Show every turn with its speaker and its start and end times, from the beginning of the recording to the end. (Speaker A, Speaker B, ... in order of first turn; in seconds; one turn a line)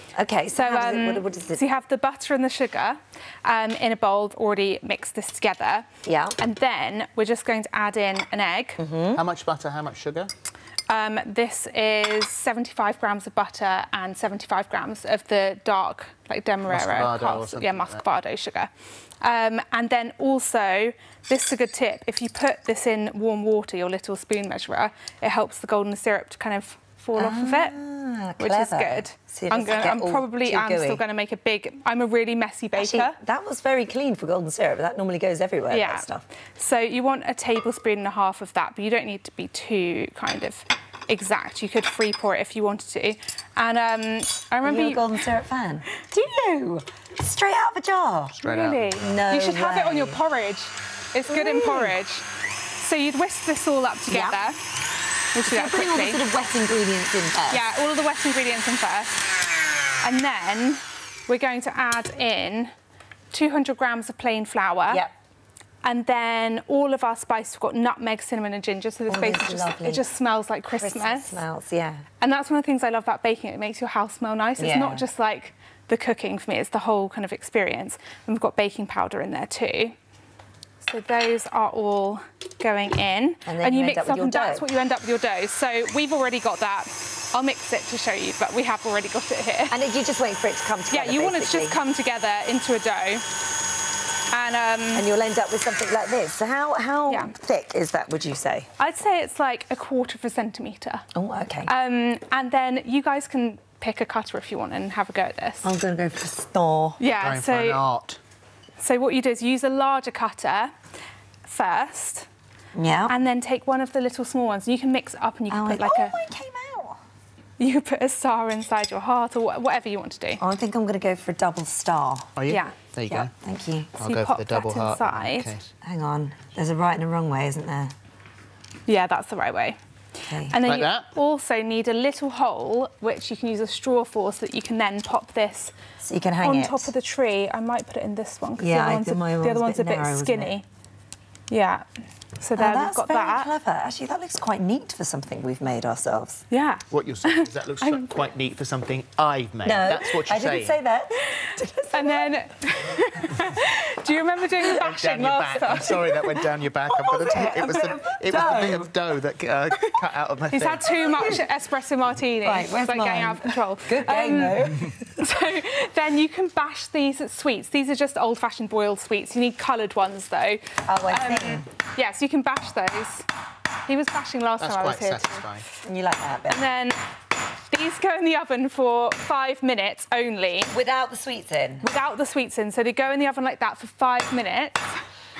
Speaker A: 0.1-1.6
Speaker B: 0.6-5.9
Speaker A: 6.0-6.4
Speaker B: 6.4-8.8
Speaker A: 8.8-9.2
Speaker C: 9.1-10.3
Speaker B: 10.9-18.7
Speaker C: 16.7-18.0
Speaker B: 19.2-27.8
Speaker A: 27.2-31.0
Speaker B: 28.4-33.2
Speaker A: 32.7-36.2
Speaker B: 35.7-45.2
Speaker A: 44.6-48.4
Speaker C: 48.4-49.0
Speaker B: 48.4-52.3
Speaker A: 49.0-50.2
Speaker A: 51.3-52.0
Speaker B: 52.8-54.6
Speaker A: 54.1-54.4
Speaker B: 55.3-56.2
Speaker A: 55.4-57.7
Speaker B: 57.5-59.3
Speaker B: 60.0-62.7
Speaker B: 63.3-65.0
Speaker B: 65.8-71.4
Speaker A: 69.1-70.0
Speaker A: 70.7-72.0
Speaker B: 72.2-79.9
Speaker A: 74.6-75.1
Speaker B: 80.8-89.8
Speaker A: 83.5-84.7
Speaker A: 89.7-91.8
Speaker B: 90.9-93.2
Speaker B: 94.3-95.1
Speaker A: 94.9-98.7
Speaker B: 97.1-97.3
Speaker B: 98.8-101.0
Speaker A: 101.2-101.7
Speaker B: 101.7-105.7
Speaker A: 105.6-107.0
Speaker B: 107.0-107.8
Speaker C: 107.2-108.2
Speaker B: 108.8-110.7
Speaker B: 111.5-112.3
Speaker A: 112.8-113.1
Speaker B: 113.1-116.2
Speaker A: 115.5-117.0
Speaker B: 117.6-120.4
Speaker A: 120.4-122.4
Speaker C: 122.4-123.3
Speaker B: 122.5-122.8
Speaker A: 123.1-124.0
Speaker C: 124.0-125.7
Speaker B: 124.0-125.5
Speaker A: 125.8-127.9
Speaker B: 128.9-129.8
Speaker A: 130.3-130.6
Speaker B: 130.4-135.7
Speaker C: 130.6-131.1
Speaker A: 136.0-136.9
Speaker B: 136.4-140.6
Speaker A: 138.6-140.5
Speaker B: 141.5-141.8
Speaker B: 142.4-143.5
Speaker A: 142.6-146.4
Speaker B: 146.5-148.1
Speaker C: 146.9-150.8
Speaker A: 149.6-152.3
Speaker B: 151.3-156.2
Speaker C: 154.8-161.3
Speaker A: 156.9-158.9
Speaker B: 160.5-173.2
Speaker A: 161.1-161.4
Speaker A: 162.4-165.2
Speaker A: 170.9-171.7
Speaker B: 173.8-175.5
Speaker C: 174.6-175.7
Speaker A: 175.8-176.6
Speaker B: 176.5-177.0
Speaker B: 177.7-180.8
Speaker A: 180.7-181.8
Speaker B: 181.8-184.9